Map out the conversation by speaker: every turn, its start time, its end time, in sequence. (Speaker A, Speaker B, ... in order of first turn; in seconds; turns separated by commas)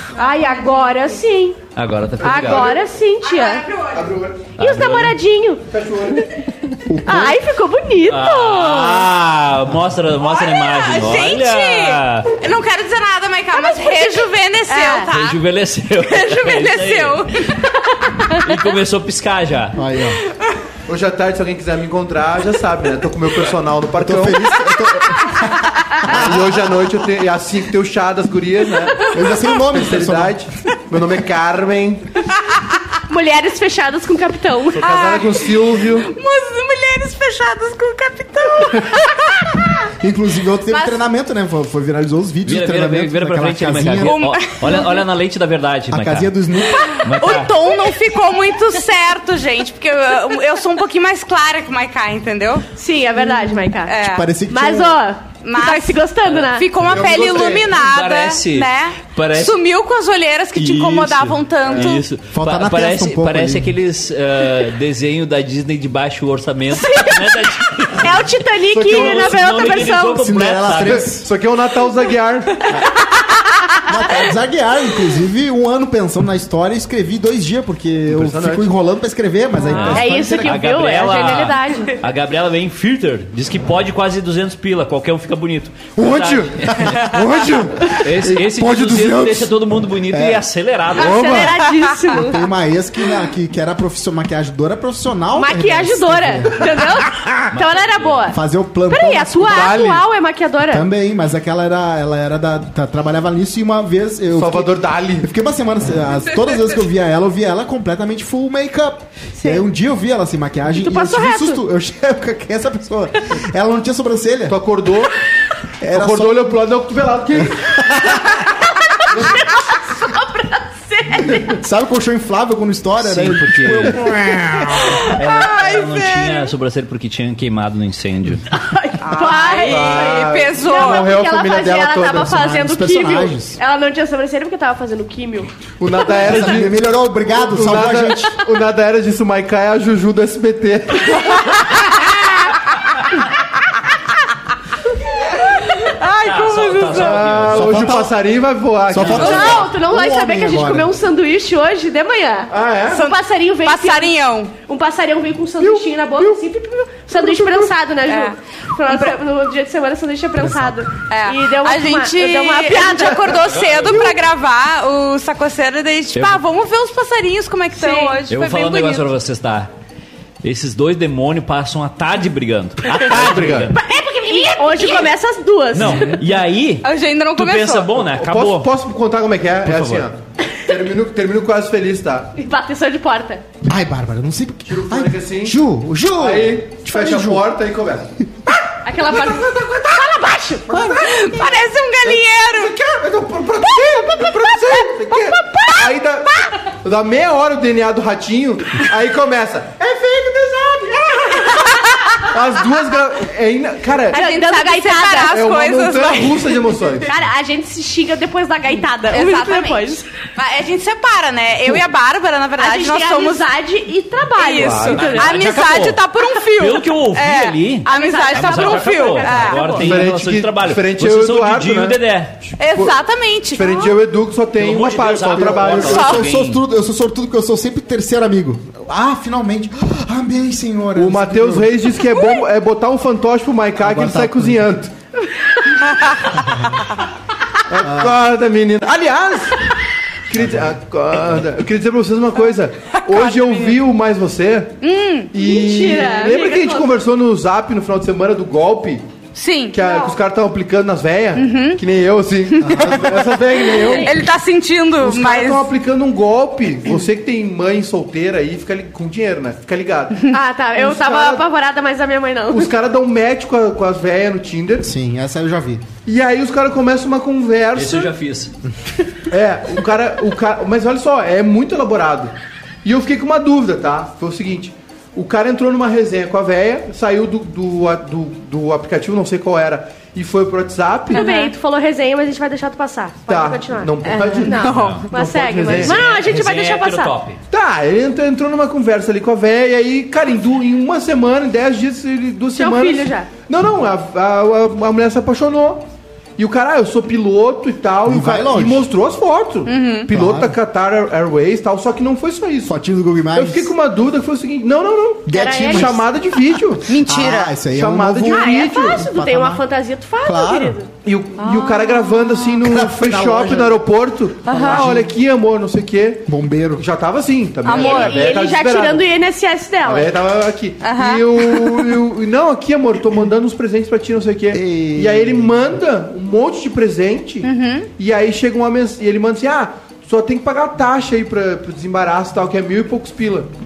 Speaker A: 0.1-1.6, Speaker B: 0.2-1.1, Speaker C: 1.7-2.7, Speaker A: 2.2-3.6, Speaker D: 2.2-2.8, Speaker B: 3.2-4.1, Speaker D: 3.9-4.5, Speaker C: 4.6-5.2, Speaker A: 4.6-5.7, Speaker D: 5.7-6.3, Speaker E: 6.8-7.4, Speaker A: 7.0-9.1, Speaker C: 8.0-12.3, Speaker B: 10.2-15.4, Speaker A: 13.6-15.1, Speaker C: 15.1-17.3, Speaker B: 16.0-17.6, Speaker A: 18.1-18.4, Speaker C: 18.4-19.8, Speaker E: 19.7-20.2, Speaker D: 20.9-24.6, Speaker E: 24.0-26.7, Speaker D: 26.0-32.1, Speaker E: 29.1-30.3, Speaker A: 33.1-35.0, Speaker D: 34.7-36.1, Speaker B: 34.8-39.7, Speaker E: 40.0-44.2, Speaker B: 40.7-41.0, Speaker C: 42.4-46.3, Speaker B: 44.0-44.9, Speaker E: 45.9-46.9, Speaker B: 46.7-52.7, Speaker C: 47.0-47.5, Speaker A: 52.8-53.9, Speaker B: 53.8-54.3, Speaker E: 54.0-55.0, Speaker A: 54.5-56.7, Speaker B: 55.4-62.0, Speaker C: 56.3-59.5, Speaker D: 56.8-57.8, Speaker C: 60.5-68.3, Speaker D: 61.6-62.0, Speaker E: 62.3-63.7, Speaker A: 66.7-70.2, Speaker D: 68.7-69.9, Speaker C: 68.8-71.1, Speaker E: 70.1-71.3, Speaker D: 70.7-72.7, Speaker A: 73.0-74.2, Speaker E: 73.8-80.6, Speaker D: 78.1-78.7, Speaker C: 79.7-87.3, Speaker A: 79.8-82.0, Speaker D: 86.0-89.5, Speaker C: 88.0-91.5, Speaker E: 90.1-90.5, Speaker D: 90.9-91.6, Speaker A: 90.9-92.4, Speaker E: 92.1-97.0, Speaker A: 95.3-98.4, Speaker C: 97.5-98.3, Speaker E: 98.3-99.8, Speaker A: 98.9-100.9, Speaker D: 99.5-100.1, Speaker E: 100.7-114.6, Speaker D: 104.3-105.3, Speaker B: 106.4-106.7, Speaker A: 109.3-109.7, Speaker A: 110.8-111.6, Speaker D: 114.5-115.1, Speaker E: 115.8-116.6, Speaker D: 115.9-117.9, Speaker E: 117.8-118.2, Speaker A: 118.3-121.6, Speaker D: 119.1-119.4, Speaker E: 121.3-125.0, Speaker C: 123.0-124.2, Speaker C: 124.9-128.5, Speaker B: 124.9-126.5, Speaker A: 128.5-136.1, Speaker B: 129.1-131.1, Speaker D: 129.6-132.3, Speaker E: 132.1-133.6, Speaker D: 135.8-136.8, Speaker E: 136.2-138.4, Speaker D: 137.3-142.1, Speaker B: 145.8-147.2, Speaker C: 146.2-147.9, Speaker D: 146.9-149.7, Speaker E: 147.5-148.1, Speaker E: 148.9-150.9, Speaker C: 149.0-149.4, Speaker A: 149.2-163.4, Speaker B: 149.2-149.6, Speaker D: 152.5-153.0, Speaker B: 152.9-154.5, Speaker D: 155.6-156.4, Speaker D: 157.1-157.7, Speaker B: 158.1-158.3, Speaker B: 158.9-159.2, Speaker E: 160.4-160.8, Speaker B: 161.1-169.1, Speaker D: 163.3-164.2, Speaker C: 163.5-164.1, Speaker C: 166.1-166.4, Speaker A: 167.8-168.2, Speaker C: 168.3-169.7, Speaker C: 170.4-173.8, Speaker D: 173.0-173.7, Speaker A: 173.7-176.2, Speaker B: 174.1-175.1, Speaker C: 175.7-178.7, Speaker B: 176.8-177.9, Speaker D: 178.0-182.3, Speaker C: 179.6-180.1, Speaker A: 182.3-183.4, Speaker E: 183.7-187.5, Speaker D: 184.7-185.6, Speaker D: 186.2-188.1, Speaker A: 188.8-190.9, Speaker D: 189.1-189.8, Speaker D: 190.7-204.2, Speaker B: 190.8-192.7, Speaker A: 193.9-194.3, Speaker A: 195.1-195.7, Speaker B: 201.6-202.0, Speaker B: 204.1-207.1, Speaker A: 204.1-205.5, Speaker D: 205.3-207.1, Speaker A: 207.0-210.1, Speaker B: 209.1-213.5, Speaker A: 212.6-215.5, Speaker B: 214.3-219.8, Speaker D: 214.6-215.4, Speaker C: 215.0-222.4, Speaker A: 217.8-219.9, Speaker D: 219.8-223.0, Speaker B: 222.6-223.9, Speaker D: 223.5-226.2, Speaker C: 224.6-226.6, Speaker E: 225.3-231.7, Speaker B: 225.8-226.3, Speaker D: 230.9-234.9, Speaker B: 232.1-232.4, Speaker E: 233.8-234.7, Speaker E: 236.3-236.8, Speaker D: 237.7-239.7, Speaker E: 237.8-238.2, Speaker D: 240.3-244.7, Speaker E: 240.4-240.7, Speaker B: 243.0-243.8, Speaker B: 244.8-245.3, Speaker D: 245.3-249.0, Speaker A: 245.3-246.9, Speaker B: 249.3-249.8, Speaker D: 249.7-254.1, Speaker A: 249.8-250.1, Speaker B: 251.3-251.8, Speaker B: 252.6-255.7, Speaker E: 252.6-253.3, Speaker A: 253.8-254.2, Speaker D: 255.0-261.4, Speaker A: 260.3-262.7, Speaker D: 262.5-264.9, Speaker E: 264.8-265.8, Speaker D: 266.0-268.1, Speaker C: 267.7-268.5, Speaker D: 269.3-272.3, Speaker D: 272.8-281.2, Speaker A: 281.1-287.1, Speaker B: 281.1-281.5, Speaker D: 283.3-286.0, Speaker B: 284.1-285.0, Speaker C: 284.7-285.1, Speaker C: 285.7-287.4, Speaker D: 287.5-295.8, Speaker A: 292.5-293.3, Speaker D: 296.4-302.8, Speaker E: 298.0-298.9, Speaker B: 299.6-300.1, Speaker E: 300.1-300.6, Speaker E: 302.6-303.7, Speaker D: 303.3-306.9, Speaker E: 305.2-306.1, Speaker A: 305.3-306.0, Speaker B: 306.8-307.6, Speaker E: 306.9-309.6, Speaker D: 307.7-309.0, Speaker A: 308.2-310.9, Speaker E: 310.2-310.8, Speaker D: 311.0-319.1, Speaker B: 311.4-312.6, Speaker E: 312.6-313.8, Speaker E: 314.5-315.1, Speaker B: 314.5-314.8, Speaker E: 316.3-316.8, Speaker B: 317.6-318.2, Speaker A: 317.7-320.1, Speaker D: 319.8-333.5, Speaker B: 320.8-321.9, Speaker E: 324.5-325.5, Speaker B: 327.4-327.9